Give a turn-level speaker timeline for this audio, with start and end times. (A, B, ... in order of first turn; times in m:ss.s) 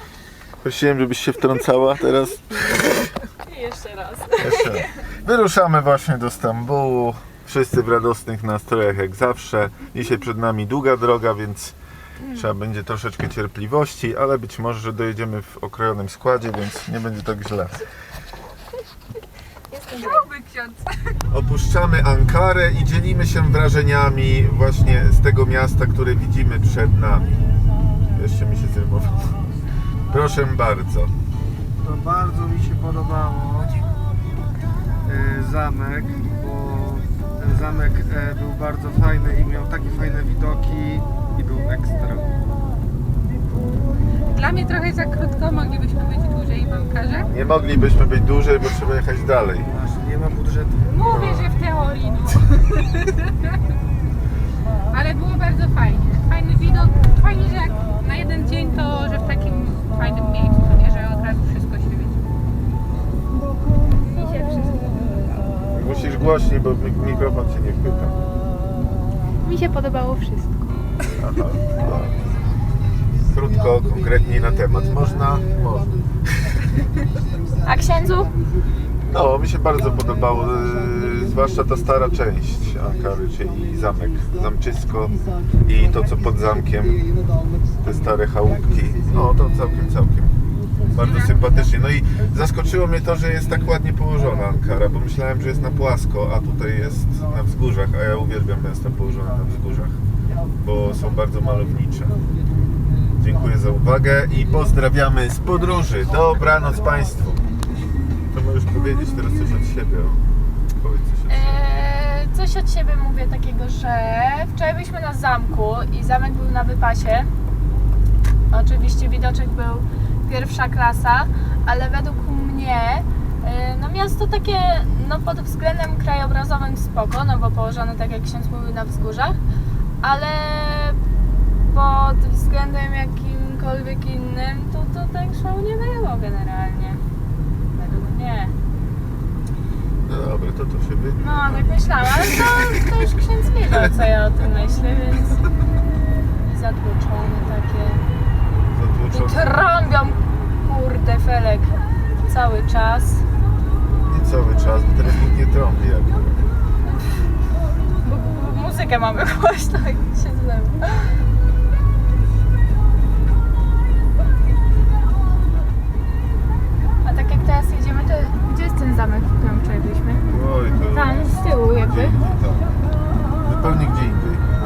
0:00.6-0:03.1 A
0:03.4-0:04.9 B
0:04.4-0:11.8 A
0:12.3-0:17.8 A
0:19.8-0:20.3 B
0:19.9-0:21.1 C
0:21.3-0:27.4 A
0:28.2-0:29.4 A
0:30.1-0:31.1 A
0:31.8-0:34.0 D
0:35.0-0:42.3 D
0:44.3-0:47.3 C
0:47.3-0:49.7 A
0:49.7-0:50.8 D
0:50.9-0:53.3 C
0:51.1-0:51.5 A
0:54.9-1:02.2 C
1:05.7-1:08.2 A
1:09.4-1:10.7 B
1:11.2-1:12.2 A
1:13.3-1:15.9 A
1:17.6-1:18.3 B
1:19.1-1:27.0 A
1:27.8-1:30.4 A
1:30.9-1:40.0 A
1:30.9-1:31.5 C
1:40.6-1:42.2 A
1:43.2-1:47.4 A
1:48.3-1:50.2 A
1:50.8-1:51.6 A
1:51.3-1:57.3 B
1:58.5-2:09.4 B
2:10.0-2:11.0 B
2:11.7-2:17.0 B
2:17.8-2:18.6 B
2:20.1-2:21.8 A
2:21.2-2:25.5 B
2:26.4-2:28.0 B
2:28.7-2:29.6 A
2:29.1-2:33.3 B
2:34.0-2:36.4 A
2:38.0-2:41.2 B
2:47.0-2:50.3 B
2:50.3-2:52.7 A
2:50.9-2:52.2 B
2:53.4-2:54.4 A